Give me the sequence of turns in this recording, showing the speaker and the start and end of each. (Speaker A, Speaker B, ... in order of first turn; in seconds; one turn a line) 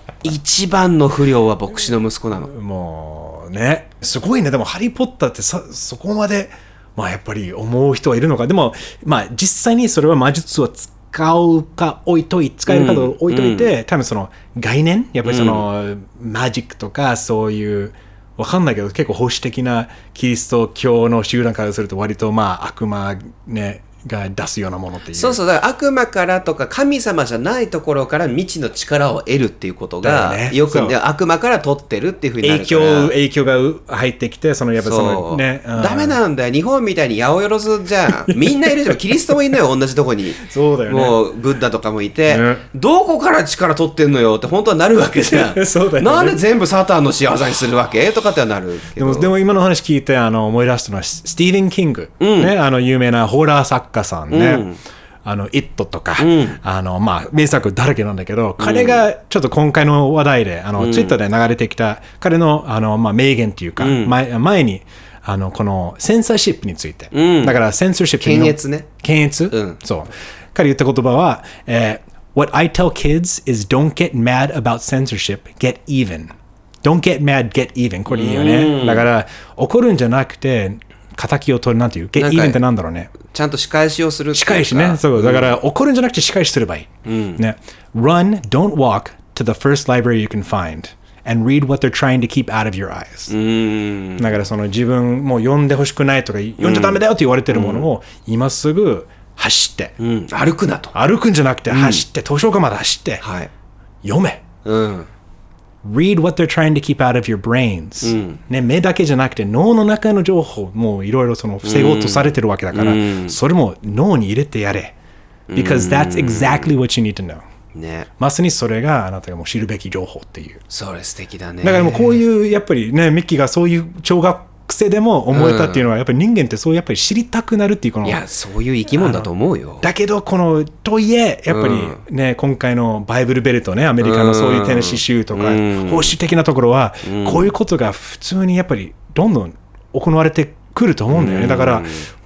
Speaker A: 0.2-2.5
Speaker B: 2.5-25.4
Speaker A: 12.7-13.7
Speaker A: 15.2-15.7
Speaker A: 25.1-33.1
Speaker B: 30.0-30.9
Speaker B: 32.4-36.2
Speaker A: 34.8-49.3
Speaker B: 38.1-39.0
Speaker B: 40.4-41.2
Speaker B: 42.3-42.6
Speaker B: 45.2-46.4
Speaker B: 49.0-54.7
Speaker A: 52.2-52.5
Speaker A: 54.3-54.8
Speaker B: 55.2-76.3
Speaker A: 56.2-56.6
Speaker A: 58.6-59.1
Speaker A: 60.8-61.2
Speaker A: 63.8-64.2
Speaker A: 67.1-67.6
Speaker A: 68.2-68.9
Speaker A: 69.5-69.8
Speaker B: 76.8-83.1
Speaker A: 78.1-79.1
Speaker A: 82.2-82.6
Speaker A: 83.3-85.6
Speaker B: 84.3-93.3
Speaker A: 87.0-87.4
Speaker A: 93.3-94.4
Speaker B: 94.2-99.9
Speaker A: 96.6-97.9
Speaker A: 100.0-101.0
Speaker B: 100.9-103.2
Speaker A: 101.7-102.0
Speaker A: 103.2-103.5
Speaker B: 104.0-104.4
Speaker A: 104.7-105.1
Speaker B: 105.8-114.9
Speaker A: 108.0-108.4
Speaker A: 111.6-113.4
Speaker A: 115.5-116.7
Speaker B: 115.5-117.5
Speaker A: 117.7-118.1
Speaker B: 118.2-120.6
Speaker A: 120.7-122.2
Speaker B: 121.6-128.2
Speaker A: 125.3-125.8
Speaker A: 128.0-129.8
Speaker B: 128.9-129.3
Speaker B: 129.8-142.0
Speaker A: 131.5-132.0
Speaker A: 134.0-136.2
Speaker A: 137.0-137.5
Speaker A: 141.1-142.1